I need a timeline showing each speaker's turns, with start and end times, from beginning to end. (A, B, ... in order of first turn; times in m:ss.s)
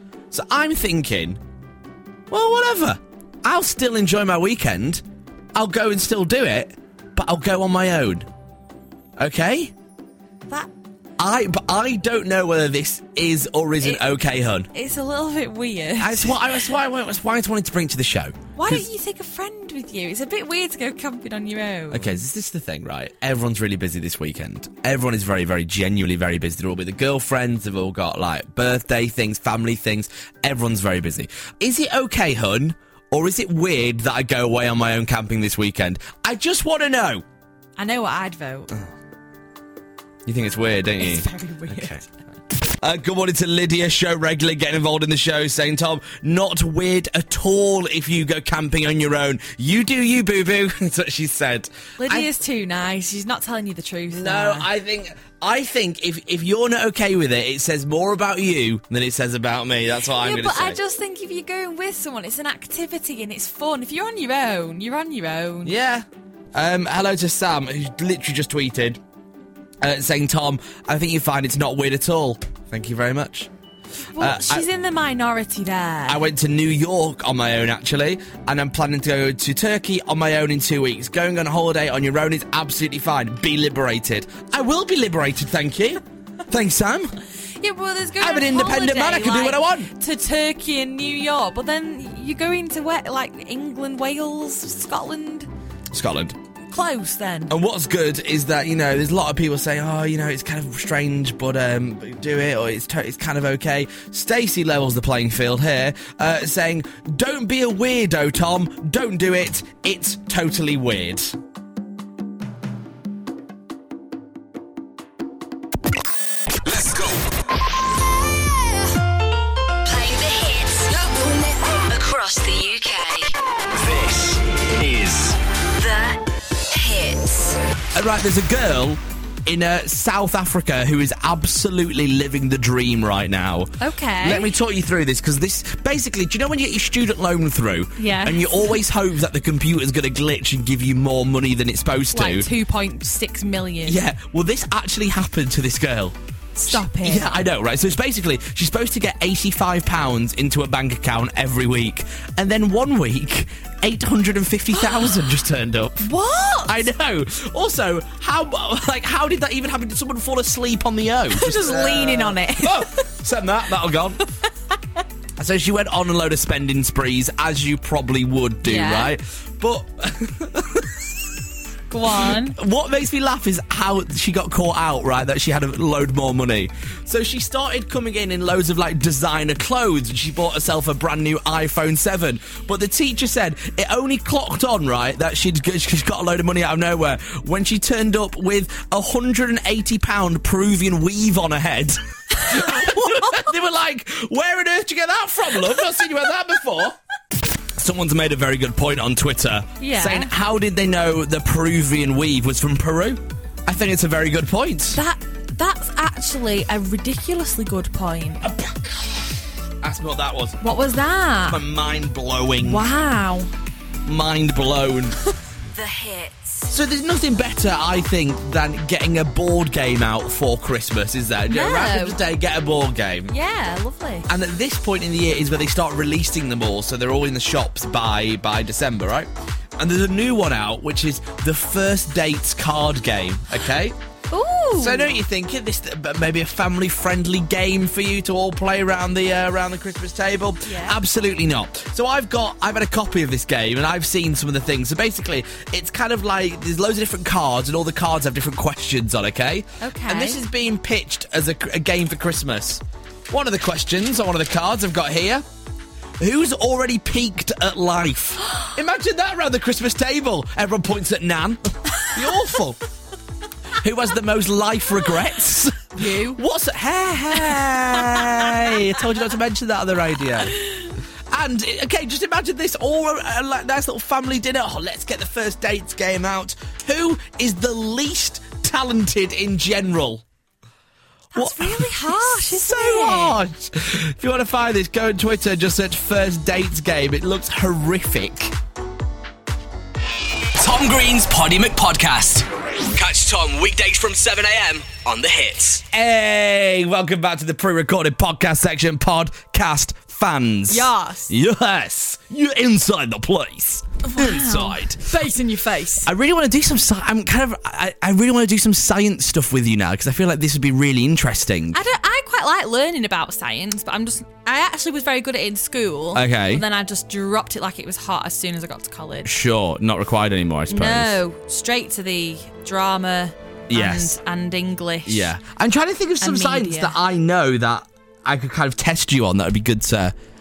0:00.3-0:01.4 A
0:02.3-0:08.3 A
0:09.2-0:09.7 A
0:11.2-0:14.7 A
0:13.8-0:14.2 B
0:14.7-0:16.4 B
0:16.0-0:18.9 A
0:18.6-0:22.2 B
0:21.9-0:37.2 A
0:37.8-0:38.8 B
0:40.2-0:42.0 A
0:41.0-0:42.1 B
0:42.6-0:52.3 A
0:52.0-0:54.7 B
0:54.1-1:00.8 A
1:00.2-1:05.7 B
1:05.6-1:09.0 A
1:09.8-1:13.5 A
1:14.1-1:16.2 B
1:14.2-1:14.7 A
1:16.1-1:27.2 A
1:27.6-1:35.5 B
1:28.2-1:29.9 A
1:35.9-1:36.4 A
1:36.7-1:37.5 B
1:37.5-1:51.4 A
1:56.6-1:57.2 C
1:59.8-2:03.3 D
2:03.7-2:05.4 C
2:05.8-2:07.6 D
2:07.9-2:22.5 A
2:13.8-2:14.6 B
2:18.0-2:18.8 B
2:22.1-2:24.0 B
2:23.8-2:36.1 A
2:26.6-2:27.4 B
2:34.8-2:35.1 B
2:36.0-2:36.9 B
2:36.7-2:44.2 A
2:41.3-2:43.1 B
2:45.4-2:51.1 A
2:48.6-2:49.1 B
2:51.9-2:52.6 B
2:52.1-3:17.0 A
3:12.4-3:13.0 B
3:17.8-3:25.0 A
3:19.8-3:20.3 B
3:24.9-3:28.5 B
3:28.4-3:29.2 A
3:29.8-3:30.8 A
3:30.6-3:31.6 B
3:31.4-3:32.9 A
3:32.6-3:33.5 B
3:34.0-3:35.2 A
3:35.8-3:36.3 B
3:35.8-3:36.4 D
3:36.7-3:43.3 A
3:41.5-3:42.2 B
3:43.3-3:44.3 B
3:44.3-3:54.0 A
3:54.3-3:55.1 B
3:54.7-4:15.4 A
4:00.6-4:01.0 B
4:09.8-4:10.4 B
4:16.2-4:22.8 A
4:23.8-4:40.2 A
4:25.9-4:26.4 B
4:41.3-4:43.4 B
4:41.3-4:48.6 A
4:50.6-4:55.8 C
4:55.9-5:05.2 A
5:00.7-5:01.3 B
5:04.0-5:06.1 B
5:06.0-5:11.8 A
5:11.7-5:19.3 B
5:16.1-5:16.6 A
5:19.2-5:21.2 A
5:20.7-5:25.4 B
5:23.7-5:24.2 A
5:25.1-5:30.2 A
5:26.2-5:27.0 B